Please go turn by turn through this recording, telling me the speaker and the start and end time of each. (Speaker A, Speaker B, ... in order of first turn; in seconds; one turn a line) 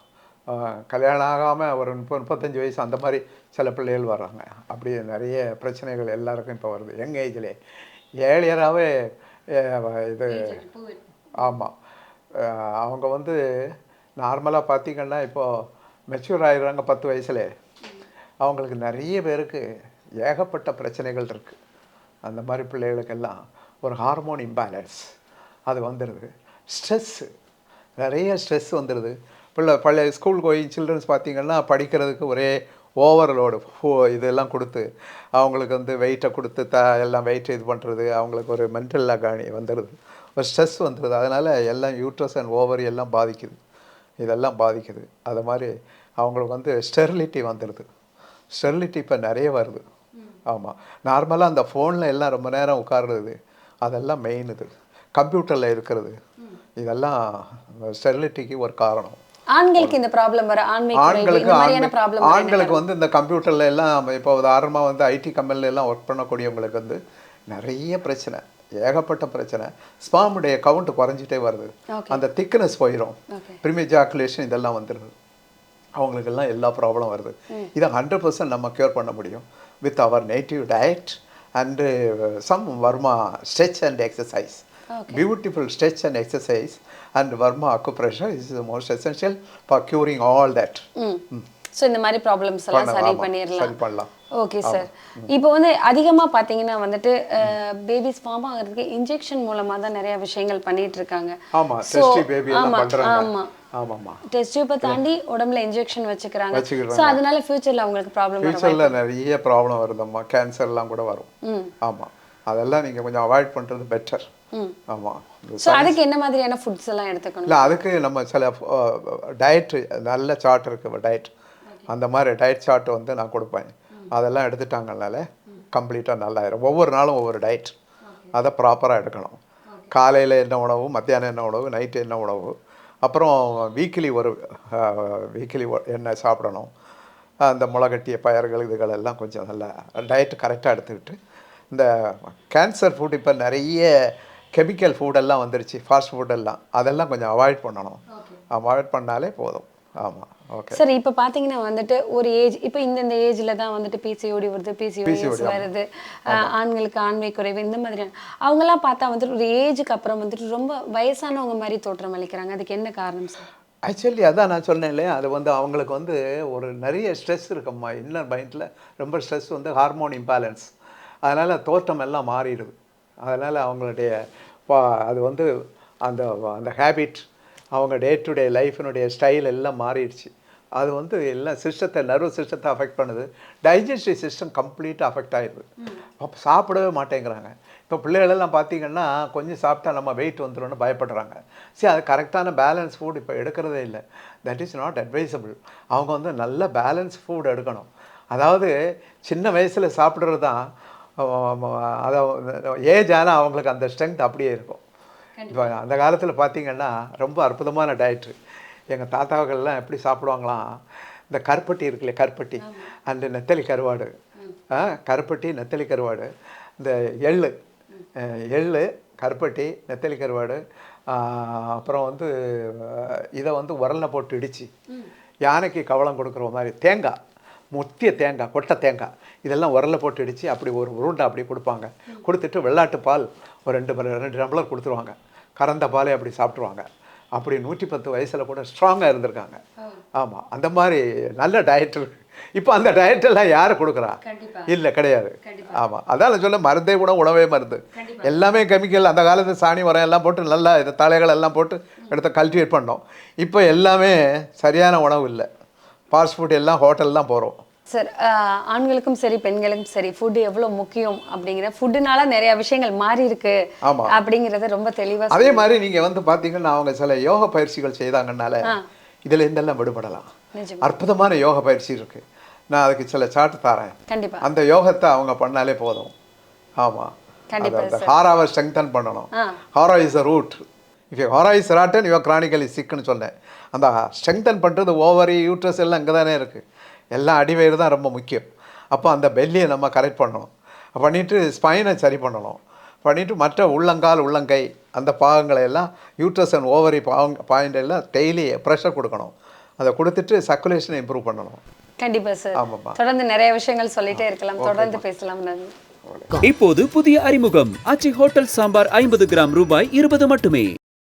Speaker A: 0.5-7.5
Speaker A: 8.2-10.6
Speaker B: 10.3-11.6
Speaker A: 11.3-11.7
Speaker A: 12.3-17.5
Speaker A: 18.4-19.6
Speaker A: 20.2-21.6
Speaker A: 22.2-25.1
Speaker A: 25.7-27.3
Speaker A: 28.0-43.6
Speaker A: 44.2-47.9
Speaker A: 48.5-49.8
Speaker A: 50.5-56.1
Speaker A: 56.8-59.2
Speaker B: 59.5-62.8
Speaker A: 60.9-75.1
Speaker B: 71.9-72.2
Speaker B: 73.3-73.6
Speaker A: 76.0-91.4
Speaker B: 84.9-85.2
Speaker B: 91.0-91.2
Speaker B: 91.8-93.8
Speaker A: 92.7-94.1
Speaker B: 94.3-103.5
Speaker A: 94.6-95.3
Speaker A: 101.5-104.2
Speaker B: 104.2-109.0
Speaker A: 106.5-107.2
Speaker A: 108.4-111.3
Speaker B: 111.4-111.7
Speaker A: 111.8-114.3
Speaker B: 114.5-114.8
Speaker A: 114.9-116.0
Speaker B: 115.6-117.8
Speaker A: 117.5-121.3
Speaker A: 121.9-127.7
Speaker B: 128.1-128.4
Speaker A: 128.3-129.4
Speaker A: 129.9-136.7
Speaker A: 137.4-141.2
Speaker A: 141.7-148.0
Speaker B: 148.1-148.4
Speaker A: 148.5-150.8
Speaker B: 150.7-163.5
Speaker A: 155.0-155.7
Speaker A: 163.8-170.7
Speaker A: 171.2-175.5
Speaker A: 176.0-185.7
Speaker A: 186.2-198.7
Speaker A: 199.2-200.6
Speaker A: 201.2-204.8
Speaker B: 205.4-205.8
Speaker A: 205.5-208.3
Speaker A: 208.9-210.8
Speaker A: 211.3-214.1
Speaker B: 212.6-212.9
Speaker A: 214.7-217.6
Speaker A: 218.2-224.7
Speaker A: 225.4-227.2
Speaker A: 227.7-239.6
Speaker A: 240.2-255.5
Speaker B: 244.2-244.7
Speaker B: 245.4-245.9
Speaker B: 247.9-248.3
Speaker A: 256.1-257.6
Speaker B: 257.9-265.7
Speaker A: 263.8-264.2
Speaker A: 265.3-268.7
Speaker A: 269.3-270.3
Speaker B: 270.5-270.9
Speaker A: 270.8-276.1
Speaker B: 274.1-274.5
Speaker A: 276.8-286.6
Speaker B: 277.5-278.1
Speaker A: 287.1-301.6
Speaker B: 302.0-305.7
Speaker A: 302.5-303.0
Speaker A: 304.1-305.0
Speaker A: 306.1-306.3
Speaker C: 306.4-310.7